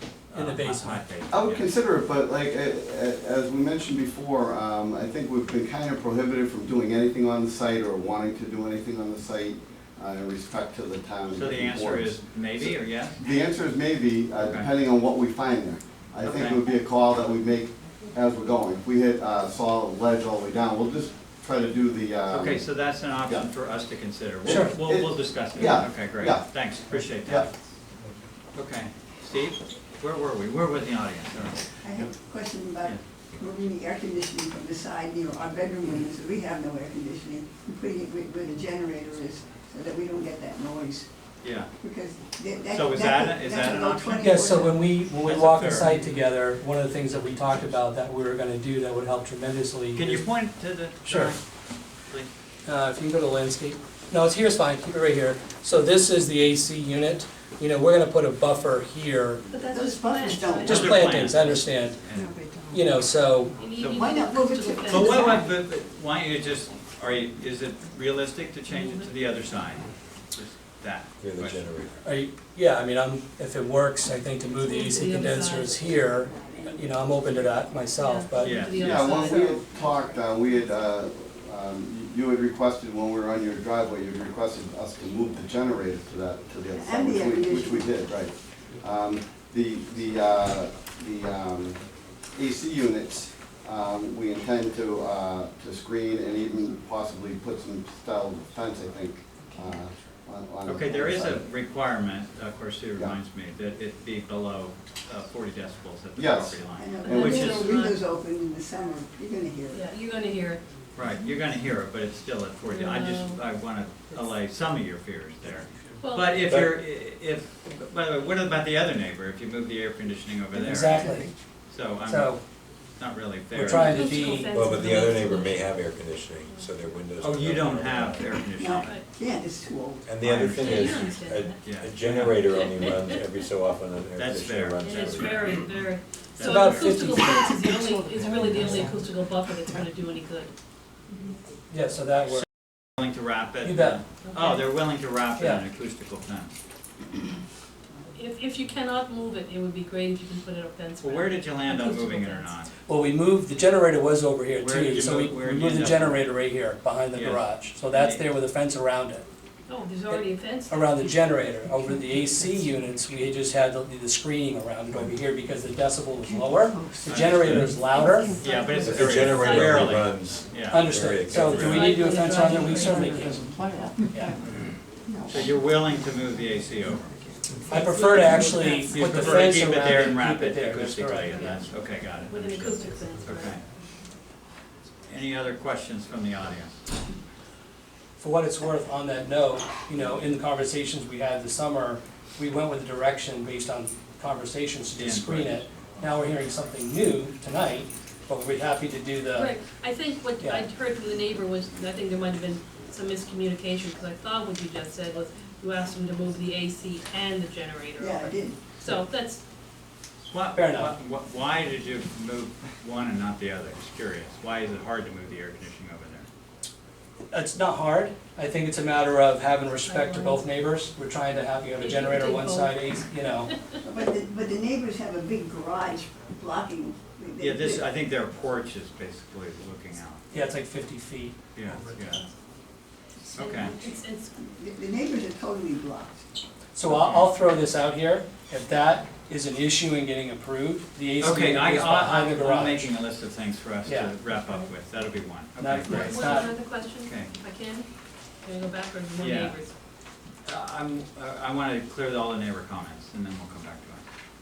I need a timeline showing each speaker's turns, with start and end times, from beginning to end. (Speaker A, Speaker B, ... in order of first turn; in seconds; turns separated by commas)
Speaker A: 0.3-1.7, Speaker B: 0.3-1.0, Speaker C: 1.3-22.7, Speaker A: 11.3-13.3, Speaker A: 14.4-14.7, Speaker A: 16.2-16.6, Speaker A: 22.3-27.5, Speaker C: 24.4-27.5, Speaker B: 24.4-24.8, Speaker A: 28.5-32.1, Speaker D: 31.8-41.1, Speaker A: 41.4-41.7, Speaker D: 41.8-45.0, Speaker A: 42.6-44.5, Speaker B: 44.2-50.2, Speaker A: 45.1-46.0, Speaker A: 49.9-51.4, Speaker B: 51.0-51.4, Speaker B: 52.6-59.4, Speaker E: 59.5-60.9, Speaker D: 59.5-61.3, Speaker A: 60.6-62.3, Speaker B: 60.6-62.0, Speaker D: 62.1-62.8, Speaker B: 62.7-63.6, Speaker E: 63.5-65.4, Speaker A: 63.7-64.2, Speaker D: 63.8-65.6, Speaker A: 64.9-71.6, Speaker E: 68.7-69.1, Speaker F: 71.2-72.0, Speaker B: 72.0-78.6, Speaker E: 74.5-75.8, Speaker D: 75.2-77.6, Speaker E: 78.0-80.1, Speaker A: 78.4-78.8, Speaker C: 78.7-101.5, Speaker D: 79.0-80.0, Speaker D: 86.7-87.9, Speaker A: 100.7-107.7, Speaker C: 106.1-107.7, Speaker D: 106.8-109.8, Speaker E: 107.0-108.0, Speaker E: 109.7-110.6, Speaker A: 110.9-121.1, Speaker E: 112.7-113.4, Speaker E: 116.0-116.4, Speaker F: 116.4-116.8, Speaker B: 120.5-121.3, Speaker D: 120.8-121.3, Speaker A: 121.7-122.4, Speaker B: 122.0-122.4, Speaker A: 123.0-124.2, Speaker B: 123.5-124.6, Speaker E: 123.6-125.6, Speaker F: 124.4-128.4, Speaker A: 127.2-128.9, Speaker D: 128.6-130.1, Speaker E: 128.8-129.0, Speaker F: 130.0-135.6, Speaker A: 130.2-130.8, Speaker E: 130.6-131.7, Speaker A: 131.6-132.5, Speaker E: 132.5-133.2, Speaker A: 134.2-137.0, Speaker E: 134.8-140.5, Speaker B: 136.4-137.6, Speaker D: 137.3-139.0, Speaker B: 141.7-142.4, Speaker A: 142.9-146.5, Speaker B: 143.6-144.0, Speaker E: 144.2-144.6, Speaker B: 145.4-145.6, Speaker E: 148.1-152.5, Speaker A: 151.0-152.7, Speaker B: 152.9-159.2, Speaker A: 154.6-156.2, Speaker A: 157.1-158.2, Speaker E: 159.7-161.1, Speaker B: 160.7-168.4, Speaker D: 161.3-162.8, Speaker D: 166.2-169.6, Speaker A: 167.1-167.3, Speaker F: 167.2-167.7, Speaker A: 168.4-171.9, Speaker F: 168.8-172.0, Speaker E: 169.3-169.8, Speaker B: 170.6-173.5, Speaker E: 171.7-173.3, Speaker D: 172.0-178.7, Speaker A: 175.3-177.2, Speaker B: 177.7-181.6, Speaker E: 177.7-179.6, Speaker A: 178.8-183.6, Speaker E: 181.3-183.6, Speaker A: 185.1-186.8, Speaker B: 188.2-199.5, Speaker A: 195.0-195.6, Speaker E: 199.3-209.4, Speaker B: 200.4-200.7, Speaker D: 208.0-208.6, Speaker A: 210.3-216.3, Speaker B: 210.5-210.9, Speaker B: 217.3-223.5, Speaker E: 219.8-220.5, Speaker E: 221.7-222.8, Speaker D: 223.8-227.9, Speaker A: 227.4-230.2, Speaker B: 230.3-231.4, Speaker A: 231.5-232.2, Speaker D: 233.3-236.3, Speaker A: 233.3-233.8, Speaker E: 233.4-234.3, Speaker B: 236.7-242.9, Speaker A: 236.8-237.3, Speaker A: 241.2-247.3, Speaker B: 243.8-244.1, Speaker E: 244.4-244.7, Speaker B: 245.6-246.5, Speaker E: 245.9-247.9, Speaker E: 248.4-249.7, Speaker A: 249.2-249.6, Speaker A: 250.4-254.1